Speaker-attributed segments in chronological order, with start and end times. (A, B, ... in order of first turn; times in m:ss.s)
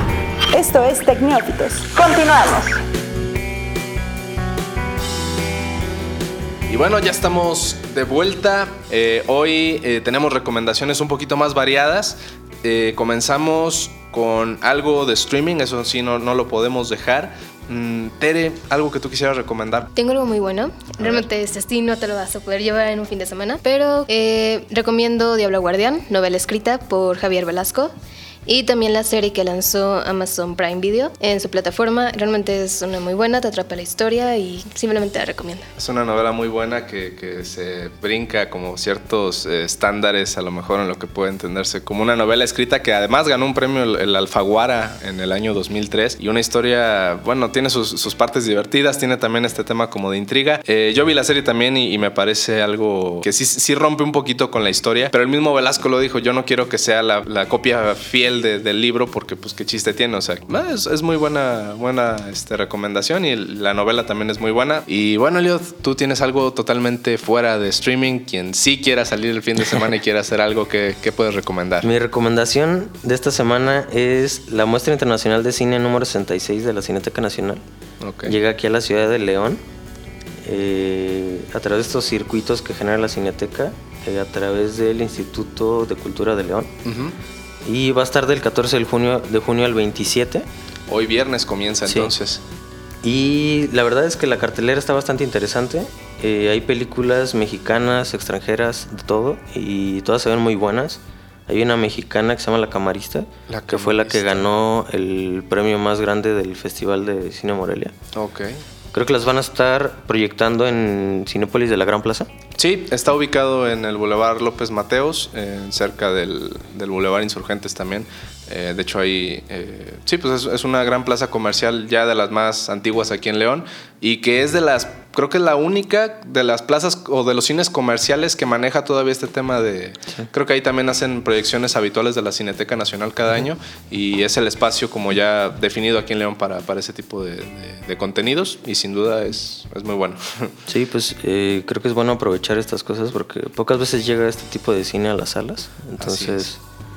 0:00.5-0:02.8 A
0:06.7-0:19.9 B
0:20.0-0:27.9 C
0:21.0-0:21.2 B
0:28.4-0:35.7 C
0:35.8-1:11.9 B
1:11.8-1:17.6 D
1:18.0-1:18.4 B
1:18.2-1:19.6 D
1:20.4-1:26.7 D
1:26.8-1:27.2 B
1:27.6-1:30.5 D
1:30.9-1:32.4 B
1:33.0-1:47.9 D
1:43.5-1:44.4 B
1:48.1-1:48.6 B
1:48.9-1:52.3 D
1:52.6-2:20.5 B
2:20.7-2:26.6 D
2:26.0-2:26.5 B